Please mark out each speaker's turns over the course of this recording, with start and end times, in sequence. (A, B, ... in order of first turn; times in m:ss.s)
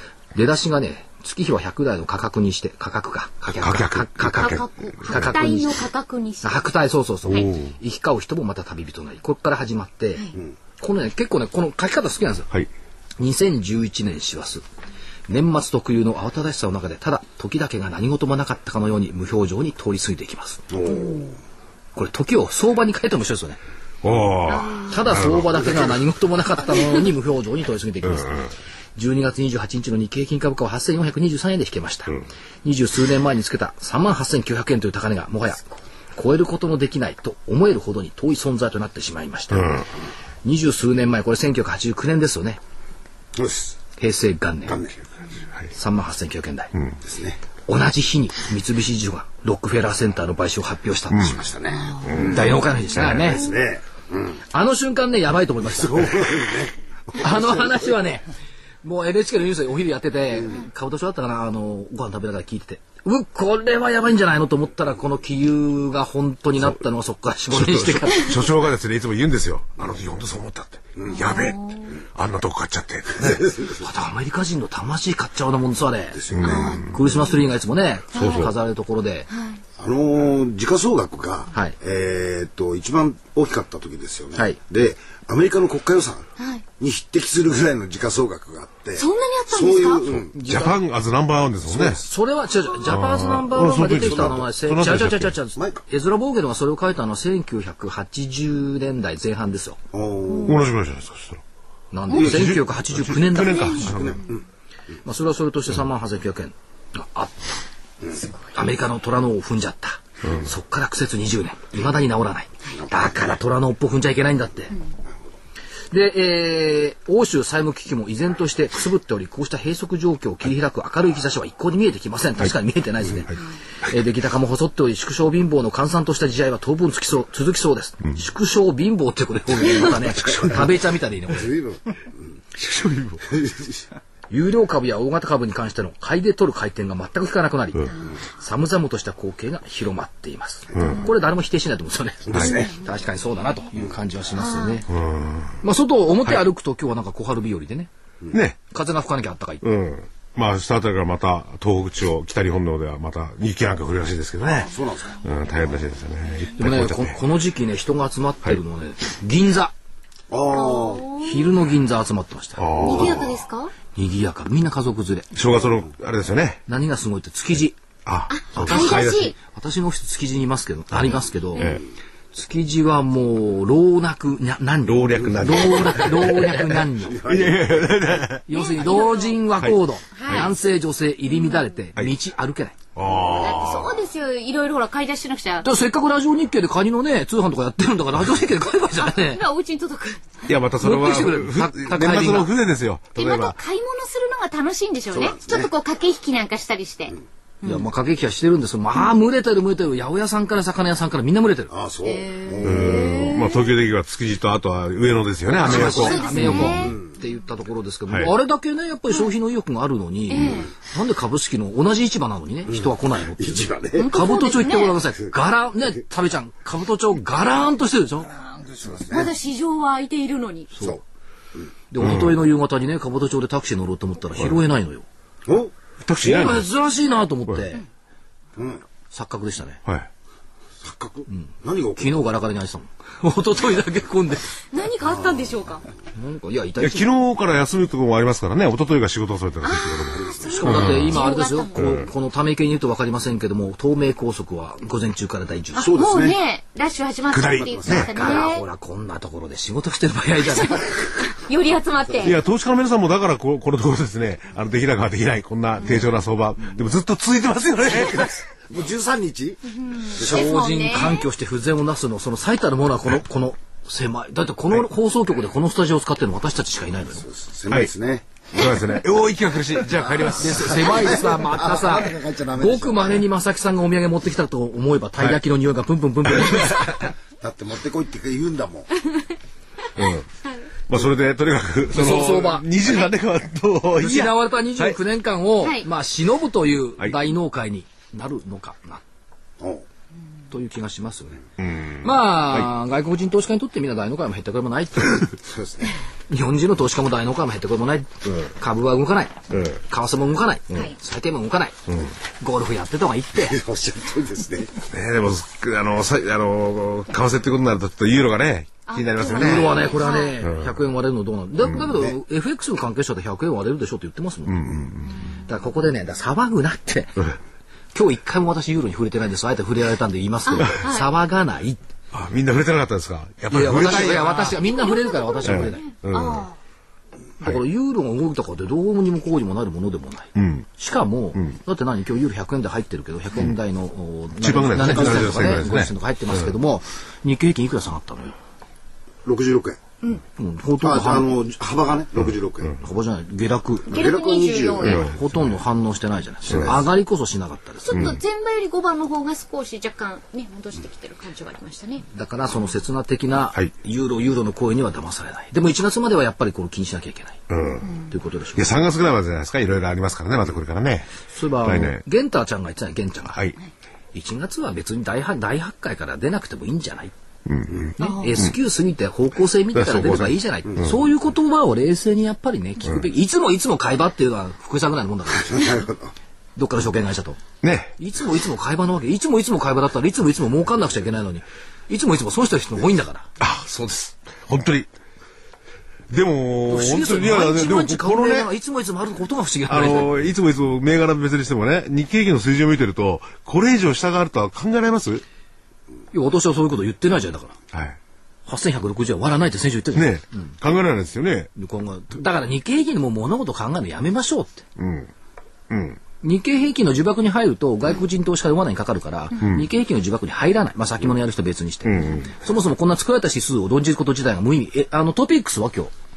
0:00.3-0:05.8 A
0:03.5-0:05.3 B
0:04.2-0:06.7 C
0:06.4-0:10.2 A
0:07.3-0:07.7 B
0:10.8-0:12.5 A
0:13.2-0:14.6 A
0:15.3-0:20.7 A
0:20.7-0:21.4 D
0:21.9-0:23.6 A
0:24.0-0:25.8 B
0:24.9-0:39.8 A
0:39.5-0:39.8 B
0:40.4-0:42.6 A
0:43.3-0:43.8 D
0:44.0-0:44.8 A
0:44.6-0:45.1 D
0:45.7-0:46.7 A
0:47.0-0:47.4 D
0:47.7-0:51.5 A
0:51.2-0:54.4 D
0:52.0-0:53.3 B
0:52.2-0:53.5 A
0:54.5-0:56.3 A
0:55.7-0:57.9 D
0:57.2-0:58.2 A
0:58.8-1:08.4 A
1:07.5-1:11.6 B
1:11.0-1:11.3 D
1:11.1-1:11.9 C
1:12.1-1:13.6 B
1:13.2-1:13.8 D
1:13.8-1:19.3 A
1:16.1-1:16.8 D
1:16.3-1:16.9 B
1:16.4-1:16.8 C
1:18.1-1:18.5 B
1:18.1-1:18.5 C
1:19.3-1:19.6 C
1:19.8-1:26.2 D
1:26.4-1:26.6 C
1:26.8-1:30.4 D
1:29.0-1:30.6 C
1:30.1-1:32.0 B
1:30.4-1:30.8 A
1:31.7-1:32.0 D
1:32.0-1:39.8 A
1:32.8-1:35.4 B
1:33.9-1:34.3 D
1:39.9-1:40.6 D
1:40.4-1:41.4 B
1:41.9-1:43.9 A
1:42.1-1:44.2 B
1:42.2-1:42.5 D
1:43.4-1:43.9 C
1:43.9-1:44.4 D
1:45.0-1:47.6 A
1:48.5-1:54.7 A
1:50.2-1:50.5 B
1:55.9-2:11.6 A
2:10.0-2:10.6 B
2:11.3-2:11.8 D
2:12.6-2:13.4 B
2:13.3-2:13.6 D
2:14.3-2:24.9 A
2:20.7-2:21.1 B
2:22.3-2:22.7 D
2:22.3-2:22.6 B
2:24.4-2:24.8 C
2:24.9-2:25.6 B
2:25.6-2:27.9 A
2:28.3-2:28.6 B
2:28.7-2:29.6 A
2:29.6-2:37.2 B
2:34.6-2:35.2 D
2:36.6-2:39.7 A
2:40.3-2:41.2 D
2:40.5-2:41.5 C
2:41.1-2:43.0 A
2:42.6-2:43.4 B
2:42.8-2:43.7 C
2:42.8-2:43.3 D
2:43.9-2:45.3 A
2:45.3-2:46.6 B
2:46.7-2:47.8 A
2:48.0-2:49.3 B
2:48.3-2:49.3 C
2:48.6-2:51.7 A
2:50.9-2:51.8 B
2:52.3-2:57.2 A
2:54.8-2:58.5 B
2:56.9-2:58.1 D
2:58.5-3:02.8 A
2:58.5-2:59.4 C
3:00.1-3:00.5 C
3:02.9-3:04.0 B
3:03.3-3:05.7 C
3:05.6-3:09.4 A
3:09.0-3:10.3 C
3:10.4-3:13.6 B
3:10.8-3:12.5 A
3:13.2-3:17.8 C
3:15.1-3:15.7 D
3:17.6-3:21.7 A
3:21.7-3:23.2 D
3:22.0-3:23.6 C
3:22.6-3:26.9 B
3:25.6-3:38.4 A
3:25.7-3:27.1 D
3:25.7-3:27.3 C
3:30.3-3:30.7 C
3:32.7-3:34.1 D
3:34.0-3:35.0 C
3:38.4-3:39.3 D
3:39.1-3:40.7 C
3:40.7-3:41.0 A
3:41.9-3:45.0 A
3:42.0-3:42.4 B
3:45.5-3:45.7 D
3:46.0-3:46.6 B
3:46.2-3:47.8 A
3:48.6-3:48.8 D
3:49.1-3:49.8 A
3:50.8-3:52.1 D
3:51.3-3:54.5 A
3:54.7-3:55.8 C
3:55.0-3:55.6 D
3:56.1-3:57.1 A
3:56.8-4:01.2 B
3:59.6-4:01.8 C
4:00.1-4:00.7 D
4:00.4-4:06.1 A
4:01.7-4:02.1 B
4:05.8-4:06.4 D
4:05.8-4:08.6 C
4:07.3-4:08.1 B
4:07.5-4:08.5 D
4:08.1-4:11.0 A
4:10.6-4:12.3 C
4:12.2-4:18.4 B
4:18.7-4:19.6 D
4:19.7-4:21.2 C
4:20.1-4:20.6 D
4:20.2-4:27.2 A
4:27.2-4:28.8 D
4:28.5-4:31.1 B
4:29.9-4:33.2 D
4:30.4-4:37.0 A
4:37.4-4:38.9 D
4:39.9-4:40.3 B
4:40.9-4:45.0 B
4:41.9-4:42.7 A
4:43.9-4:49.0 A
4:45.6-4:45.8 C
4:49.6-4:49.8 D
4:50.5-4:51.4 A
4:51.6-4:52.7 B
4:52.0-4:55.3 A
4:55.4-4:55.9 D
4:56.3-5:01.8 A
4:59.5-4:59.8 B
5:02.4-5:03.6 A
5:03.4-5:04.7 D
5:04.9-5:09.9 B
5:08.9-5:10.3 C
5:09.2-5:14.8 A
5:10.4-5:10.7 B
5:11.9-5:12.2 D
5:14.5-5:15.2 B
5:15.4-5:17.3 A
5:17.9-5:21.8 A
5:20.5-5:21.1 C
5:22.1-5:24.7 B
5:23.5-5:25.8 A
5:24.7-5:26.6 C
5:25.4-5:26.5 B
5:27.4-5:38.3 A
5:30.4-5:30.6 B
5:34.4-5:35.9 B
5:34.8-5:35.4 D
5:39.2-5:39.8 D
5:40.4-5:41.3 A
5:40.8-5:42.8 D
5:42.2-5:42.7 B
5:42.8-5:44.0 A
5:43.9-5:45.0 D
5:43.9-5:45.0 C
5:44.8-5:45.2 B
5:44.8-5:48.2 A
5:46.5-5:46.7 B
5:47.8-5:52.0 C
5:47.9-5:48.2 B
5:52.0-5:57.4 A
5:57.5-5:57.9 B
5:58.1-5:58.8 A
5:58.5-6:01.1 B
6:01.3-6:03.4 A
6:01.6-6:02.0 B
6:04.1-6:07.1 A
6:07.4-6:08.5 B
6:08.0-6:15.7 A
6:09.7-6:10.9 B
6:15.4-6:16.1 D
6:16.6-6:17.4 A
6:17.6-6:17.9 B
6:18.0-6:23.3 A
6:23.4-6:24.9 B
6:26.1-6:28.5 B
6:26.7-6:30.2 A
6:29.7-6:35.2 B
6:36.1-6:37.6 A
6:37.7-6:38.0 B
6:38.4-6:40.5 A
6:39.9-6:41.5 B
6:41.6-6:44.6 A
6:44.8-6:45.1 B
6:45.7-6:46.0 B
6:46.2-6:55.9 A
6:49.3-6:49.7 B
6:51.8-6:52.3 B